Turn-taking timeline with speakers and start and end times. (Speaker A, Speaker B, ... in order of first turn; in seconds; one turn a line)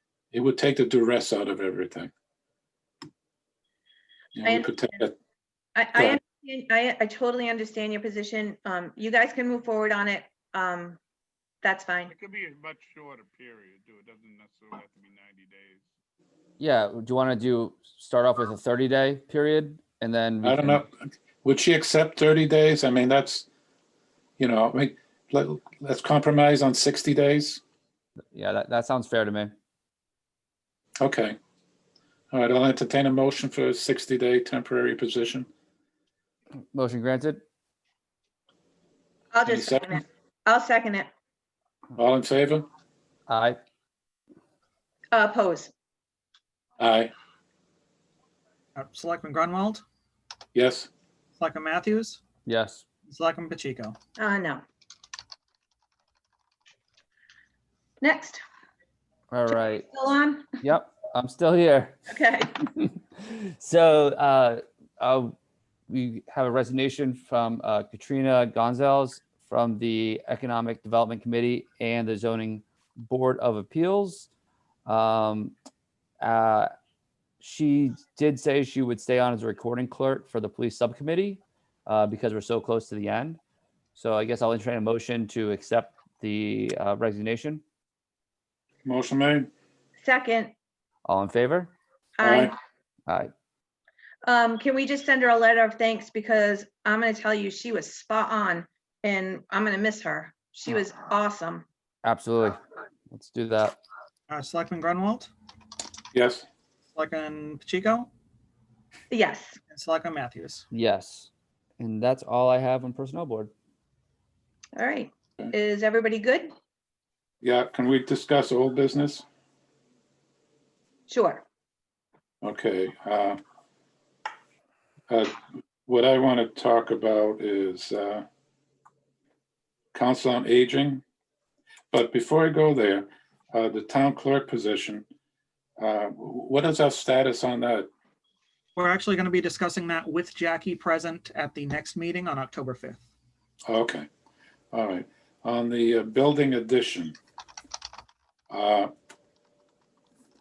Speaker A: 0.3-2.1
Speaker A: 4.3-5.1
Speaker B: 4.4-4.7
Speaker B: 5.8-11.0
Speaker B: 11.6-12.1
Speaker C: 12.1-15.9
Speaker D: 16.6-20.9
Speaker A: 20.4-23.5
Speaker A: 24.4-27.6
Speaker D: 28.3-29.5
Speaker A: 31.0-31.4
Speaker A: 32.3-35.5
Speaker D: 36.7-37.4
Speaker B: 39.3-41.1
Speaker A: 39.5-40.0
Speaker A: 42.0-42.7
Speaker D: 43.3-43.6
Speaker B: 45.1-45.7
Speaker A: 46.8-47.1
Speaker E: 48.8-49.8
Speaker A: 50.5-50.9
Speaker E: 51.4-52.2
Speaker D: 52.5-52.9
Speaker E: 53.1-54.0
Speaker B: 54.2-54.6
Speaker B: 58.0-58.4
Speaker D: 59.3-59.9
Speaker B: 59.7-60.5
Speaker D: 60.6-62.1
Speaker B: 62.1-62.5
Speaker D: 62.6-65.3
Speaker D: 65.9-74.3
Speaker D: 74.9-75.5
Speaker D: 76.2-76.7
Speaker D: 77.4-83.4
Speaker D: 84.0-87.6
Speaker A: 88.8-89.5
Speaker B: 90.0-90.5
Speaker D: 91.1-91.7
Speaker B: 92.2-92.5
Speaker A: 92.2-92.5
Speaker B: 94.2-101.7
Speaker D: 102.0-103.8
Speaker E: 104.3-105.3
Speaker A: 106.1-106.5
Speaker E: 107.0-108.1
Speaker B: 109.1-109.6
Speaker E: 109.7-110.6
Speaker D: 110.7-111.3
Speaker D: 111.8-113.5
Speaker B: 114.8-116.5
Speaker A: 117.4-119.2
Speaker B: 121.1-121.4
Speaker A: 122.4-123.4
Speaker A: 125.9-128.2
Speaker A: 129.9-131.0
Speaker A: 131.9-135.1
Speaker A: 135.8-137.9
Speaker E: 138.8-143.0
Speaker A: 143.7-144.1
Speaker A: 144.7-147.2
Speaker A: 148.5-148.9